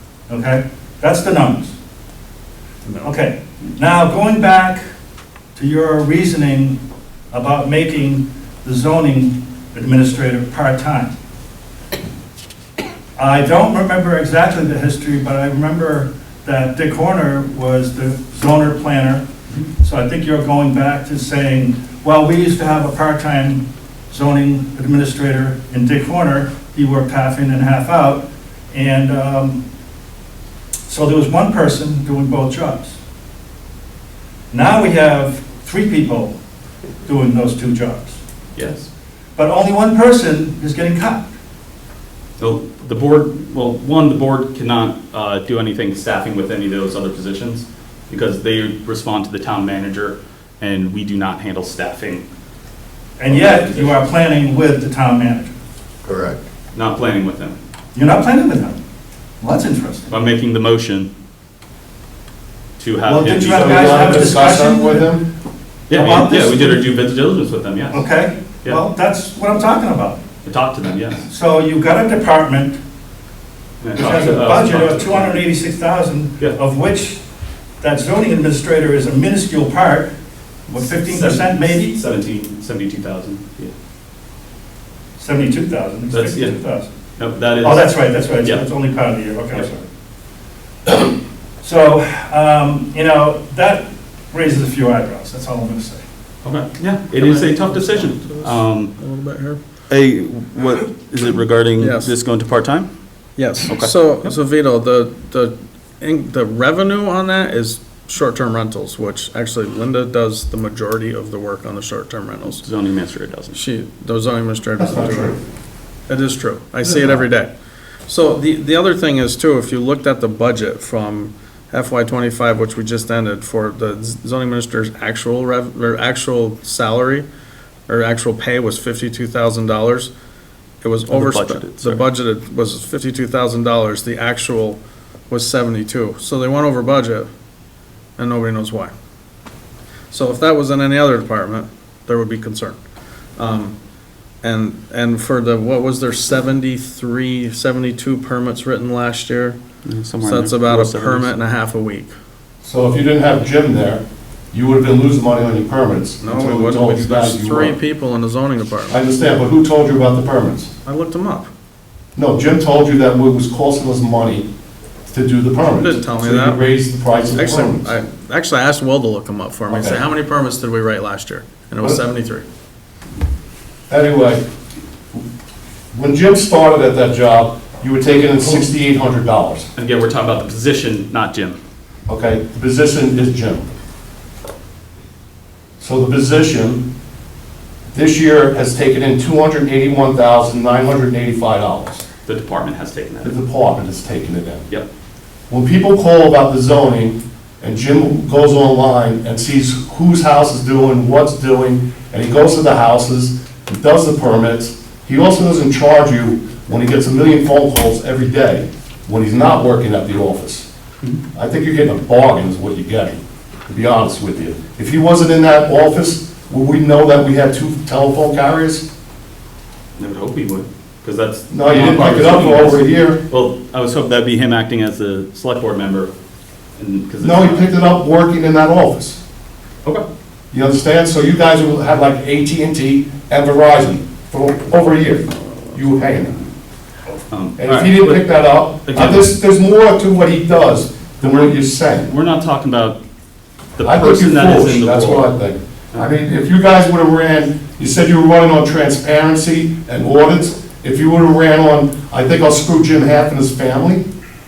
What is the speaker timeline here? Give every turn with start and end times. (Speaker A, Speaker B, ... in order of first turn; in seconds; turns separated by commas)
Speaker A: 0.3-1.7, Speaker A: 3.0-4.8, Speaker A: 5.5-6.8, Speaker A: 7.3-11.1, Speaker A: 13.2-19.2, Speaker A: 19.8-29.6, Speaker A: 30.9-33.0, Speaker A: 34.5-36.3, Speaker A: 37.0-38.2, Speaker B: 38.5-38.9, Speaker A: 39.4-41.3, Speaker B: 42.4-52.2, Speaker A: 53.2-55.5, Speaker B: 53.2-54.0, Speaker B: 56.7-57.6, Speaker A: 57.9-58.8, Speaker A: 59.4-60.1, Speaker B: 60.1-61.1, Speaker B: 62.8-64.4, Speaker A: 63.0-65.1, Speaker C: 63.5-65.2, Speaker B: 65.9-68.0, Speaker A: 65.9-66.8, Speaker A: 67.9-70.2, Speaker B: 70.4-71.2, Speaker A: 71.3-72.8, Speaker B: 73.8-75.3, Speaker A: 74.0-77.2, Speaker A: 77.8-80.1, Speaker A: 80.7-82.0, Speaker B: 80.8-83.7, Speaker A: 85.2-86.9, Speaker B: 86.1-86.6, Speaker B: 87.1-88.7, Speaker A: 87.6-89.9, Speaker A: 90.8-96.0, Speaker B: 96.4-98.9, Speaker D: 97.2-99.6, Speaker B: 99.9-102.9, Speaker D: 101.8-102.1, Speaker D: 103.4-112.6, Speaker B: 103.6-104.3, Speaker B: 112.5-113.6, Speaker D: 113.5-115.4, Speaker C: 114.8-115.4, Speaker D: 116.1-117.5, Speaker D: 118.1-127.3, Speaker D: 127.9-130.1, Speaker D: 130.8-137.3, Speaker B: 131.1-132.0, Speaker D: 138.2-138.9, Speaker D: 140.1-142.8, Speaker D: 143.4-143.8, Speaker D: 144.4-149.6, Speaker B: 149.8-151.3, Speaker D: 150.2-152.1, Speaker C: 152.6-157.8, Speaker D: 156.2-158.9, Speaker C: 158.9-160.7, Speaker D: 160.8-161.5, Speaker C: 162.2-164.5, Speaker C: 165.1-168.0, Speaker D: 165.6-166.6, Speaker D: 167.3-172.4, Speaker C: 169.7-170.0, Speaker C: 173.9-174.4, Speaker C: 175.9-179.7, Speaker B: 179.7-181.6, Speaker C: 182.1-183.7, Speaker C: 185.8-186.8, Speaker C: 187.9-192.1, Speaker B: 192.2-193.3, Speaker C: 193.2-194.7, Speaker C: 195.5-210.7, Speaker C: 211.3-218.9, Speaker B: 219.9-226.1, Speaker C: 221.5-223.2, Speaker B: 226.8-227.7, Speaker C: 227.2-229.2, Speaker C: 230.5-236.5, Speaker B: 237.1-239.3, Speaker C: 237.6-242.1, Speaker B: 242.0-243.0, Speaker B: 243.8-245.3, Speaker C: 243.8-254.0